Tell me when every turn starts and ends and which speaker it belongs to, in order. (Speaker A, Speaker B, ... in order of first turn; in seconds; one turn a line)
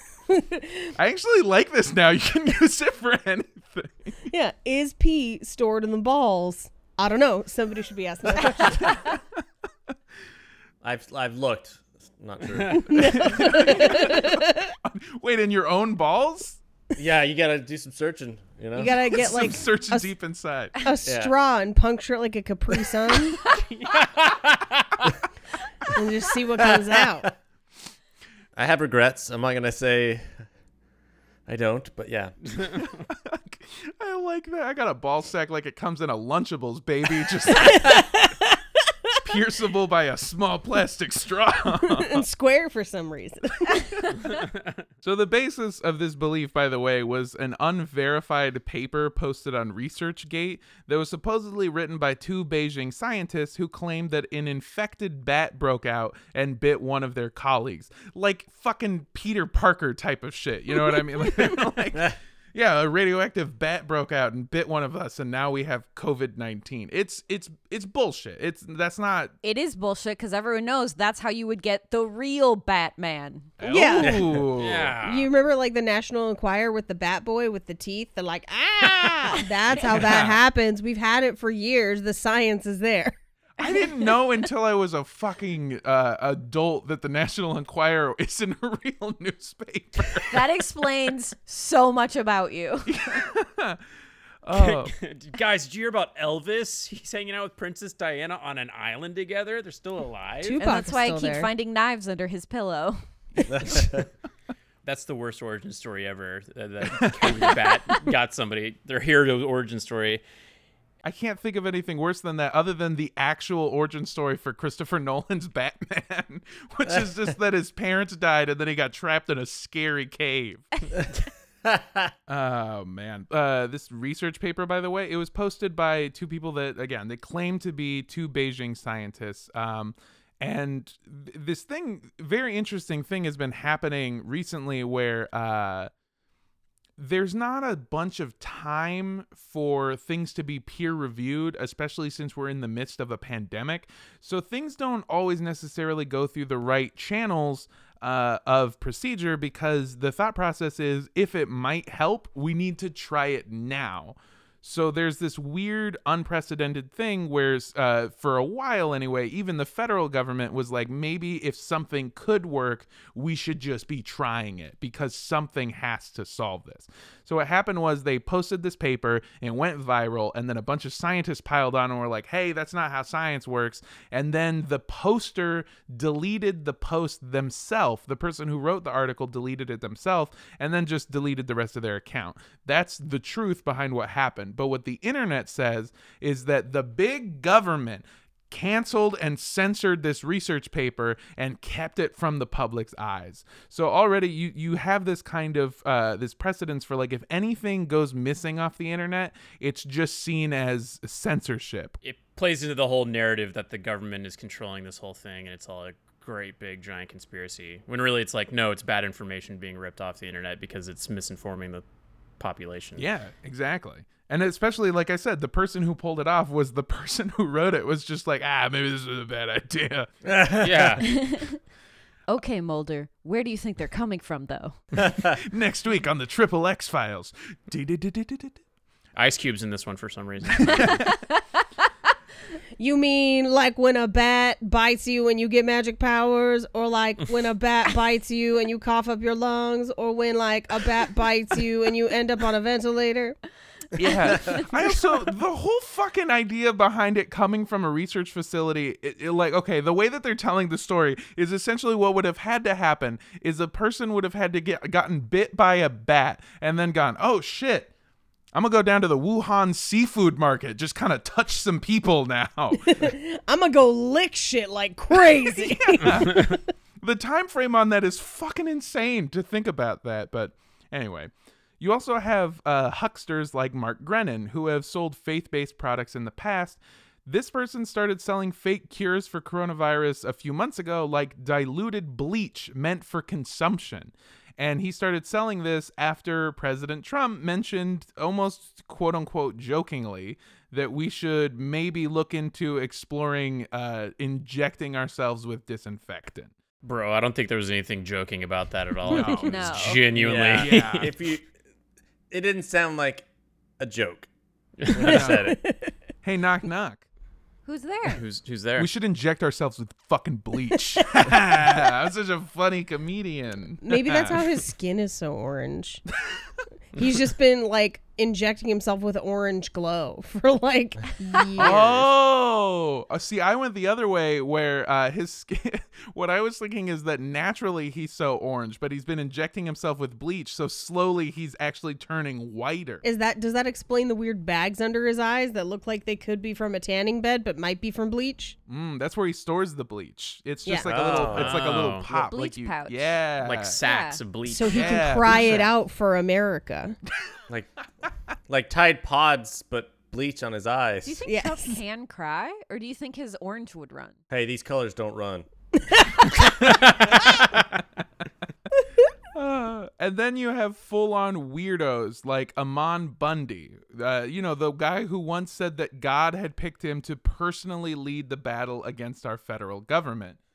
Speaker A: 0.3-0.9
Speaker B: 1.0-4.3
Speaker A: 4.3-8.9
Speaker C: 10.8-14.1
Speaker D: 12.5-12.9
Speaker A: 12.9-14.7
Speaker B: 12.9-16.6
Speaker C: 17.0-19.4
Speaker A: 18.7-20.1
Speaker B: 19.1-20.7
Speaker A: 20.8-23.4
Speaker C: 21.1-21.3
Speaker D: 23.5-25.0
Speaker A: 25.9-27.3
Speaker C: 26.6-27.3
Speaker C: 28.6-30.5
Speaker C: 31.5-32.8
Speaker B: 32.8-37.9
Speaker A: 37.6-38.6
Speaker B: 39.1-42.2
Speaker A: 41.9-43.9
Speaker B: 45.0-69.3
Speaker A: 61.2-61.6
Speaker E: 69.4-73.6
Speaker B: 73.6-74.9
Speaker A: 73.7-74.5
Speaker C: 74.0-74.4
Speaker D: 74.5-75.3
Speaker A: 75.0-83.2
Speaker B: 79.8-80.4
Speaker B: 83.6-90.4
Speaker E: 90.3-93.2
Speaker B: 92.9-93.8
Speaker B: 94.5-94.9
Speaker D: 94.5-100.6
Speaker A: 100.4-101.5
Speaker E: 100.6-103.7
Speaker C: 103.5-104.1
Speaker D: 104.8-110.2
Speaker B: 107.0-107.6
Speaker B: 111.0-120.9
Speaker C: 121.7-122.1
Speaker B: 122.3-135.9
Speaker B: 137.0-202.0
Speaker D: 202.0-211.8
Speaker D: 212.4-213.1
Speaker B: 213.0-220.1
Speaker C: 220.2-221.1
Speaker D: 220.6-221.1
Speaker E: 221.0-221.6
Speaker E: 222.3-224.9
Speaker C: 225.0-225.4
Speaker B: 225.4-228.6
Speaker D: 229.2-231.0
Speaker B: 230.7-231.1
Speaker E: 230.8-231.6
Speaker A: 232.8-243.4
Speaker B: 244.0-257.9
Speaker C: 244.2-244.6
Speaker B: 258.5-263.0
Speaker A: 262.8-266.6
Speaker B: 265.6-296.5
Speaker D: 296.8-301.1
Speaker B: 299.1-299.9
Speaker E: 299.4-300.0
Speaker C: 300.1-301.5
Speaker B: 300.5-301.1
Speaker C: 302.3-303.3
Speaker C: 303.8-304.3
Speaker D: 304.8-305.3
Speaker C: 304.9-305.6
Speaker B: 305.0-305.5
Speaker A: 305.3-305.9
Speaker B: 306.2-307.1
Speaker E: 307.6-308.2
Speaker D: 308.1-308.9
Speaker B: 308.8-314.4
Speaker A: 313.8-316.0
Speaker A: 316.9-322.1
Speaker B: 321.6-333.0
Speaker A: 333.0-338.6
Speaker B: 338.7-343.8
Speaker C: 340.9-341.9
Speaker D: 341.1-342.1
Speaker E: 342.1-343.2
Speaker D: 343.4-345.5
Speaker E: 343.8-344.2
Speaker A: 344.5-347.0
Speaker B: 344.7-345.7
Speaker C: 347.5-347.9
Speaker C: 348.5-351.3
Speaker E: 351.1-354.2
Speaker A: 351.3-351.8
Speaker C: 354.3-355.5
Speaker A: 355.8-356.3
Speaker C: 356.3-357.6
Speaker B: 356.4-357.6
Speaker B: 359.3-370.4